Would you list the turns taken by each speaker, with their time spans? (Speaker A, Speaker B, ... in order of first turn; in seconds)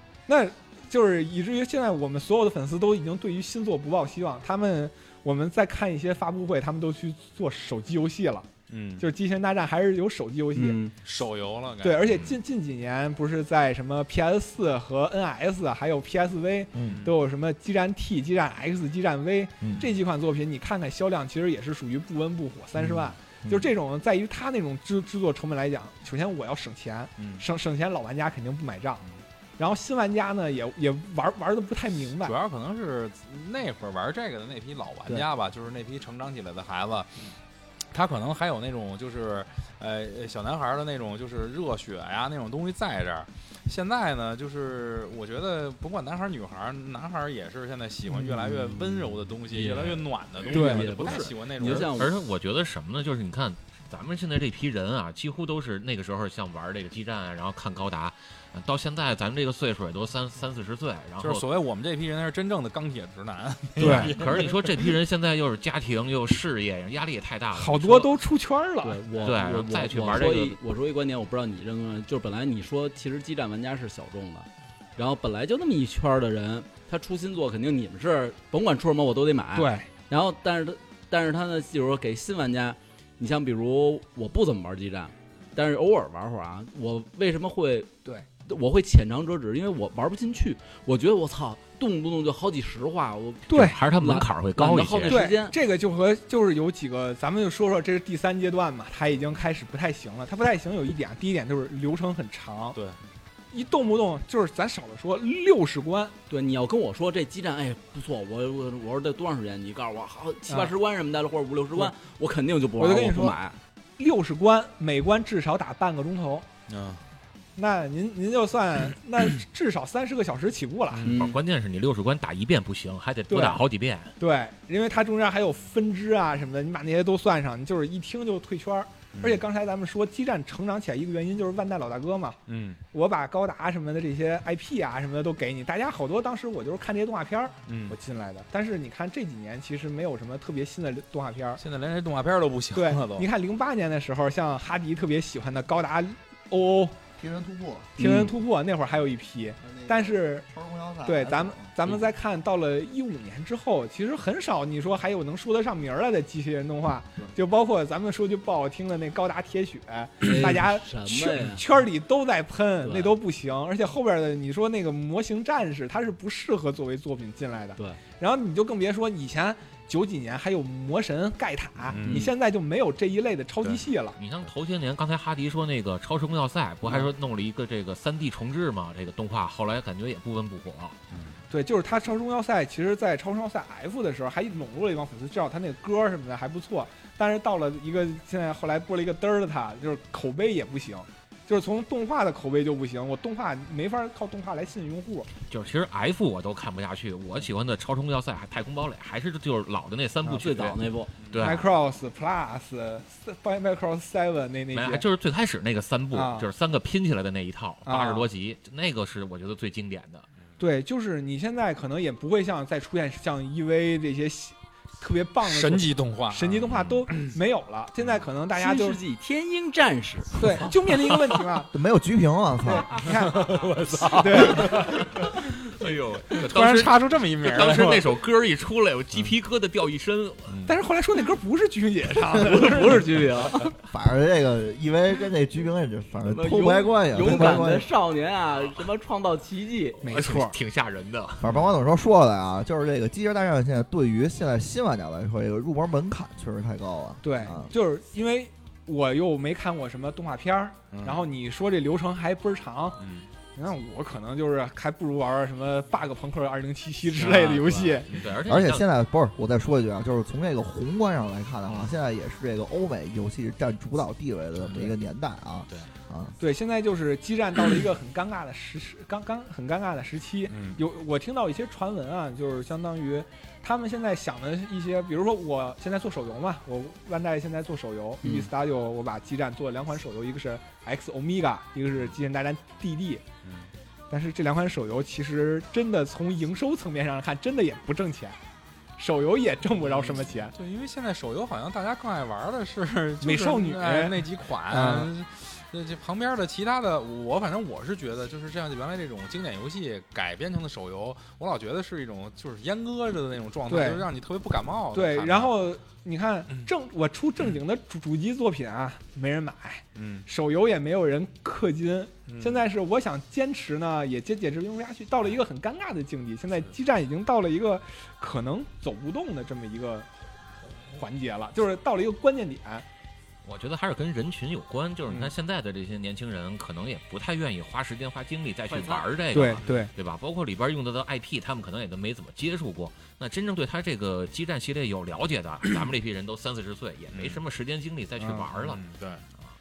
Speaker A: 0.3-8.5, 9.0-10.8, 11.8-29.0, 29.6-32.4, 50.5-51.2, 63.8-64.2, 67.5-69.3, 79.5-79.9, 93.5-93.8, 95.1-102.8, 103.5-106.2, 112.8-113.4, 114.0-116.5, 117.6-121.1, 123.3-123.6, 124.2-132.4, 132.9-141.6, 142.8-147.0, 148.0-150.5, 151.1-174.2, 181.5-195.3, 201.4-205.1, 206.1-206.5, 207.9-208.3, 210.6-219.0, 220.4-221.7, 222.7-225.1, 230.7-233.3, 240.0-240.6, 247.2-253.0, 253.6-258.1, 266.4-283.2, 284.1-288.4, 289.0-290.5, 293.2-295.1, 303.7-304.1, 304.9-320.1, 320.8-322.9, 329.3-329.9
Speaker B: 8.7-9.1, 11.0-12.2, 16.9-17.2, 27.2-27.5, 32.2-37.3, 37.9-51.9, 61.2-64.9, 116.7-117.0, 129.2-129.4, 132.5-132.8, 137.7-138.0, 141.6-143.3, 171.9-172.3, 173.6-173.9, 181.1-181.4, 201.2-201.6, 215.4-217.3, 223.1-225.5, 226.3-228.2, 230.5-230.8, 250.9-251.3, 253.0-253.3, 264.6-264.9, 270.5-270.8, 283.4-283.7, 289.8-305.6, 310.0-310.3, 312.3-312.6, 337.1-337.4, 338.5-339.2
Speaker C: 10.6-10.9, 48.2-52.1, 68.8-87.9, 88.4-95.5, 106.3-113.6, 121.0-121.4, 148.0-148.3, 160.2-161.6, 162.8-163.2, 172.0-172.3, 200.3-201.1, 218.6-220.7, 232.4-233.7, 236.2-240.0, 257.2-258.0, 278.2-278.5, 328.7-329.6
Speaker D: 16.8-17.0, 19.6-19.9, 23.4-23.7, 147.2-148.0, 149.6-151.7, 221.7-222.9, 233.9-237.9, 241.4-247.7, 258.5-266.4
Speaker E: 51.6-61.5, 63.8-68.2, 69.2-70.6, 93.5-95.2, 121.1-124.1, 174.2-181.0, 195.5-201.7, 204.7-210.3, 224.8-230.6, 240.0-241.5, 258.1-258.9, 323.4-338.8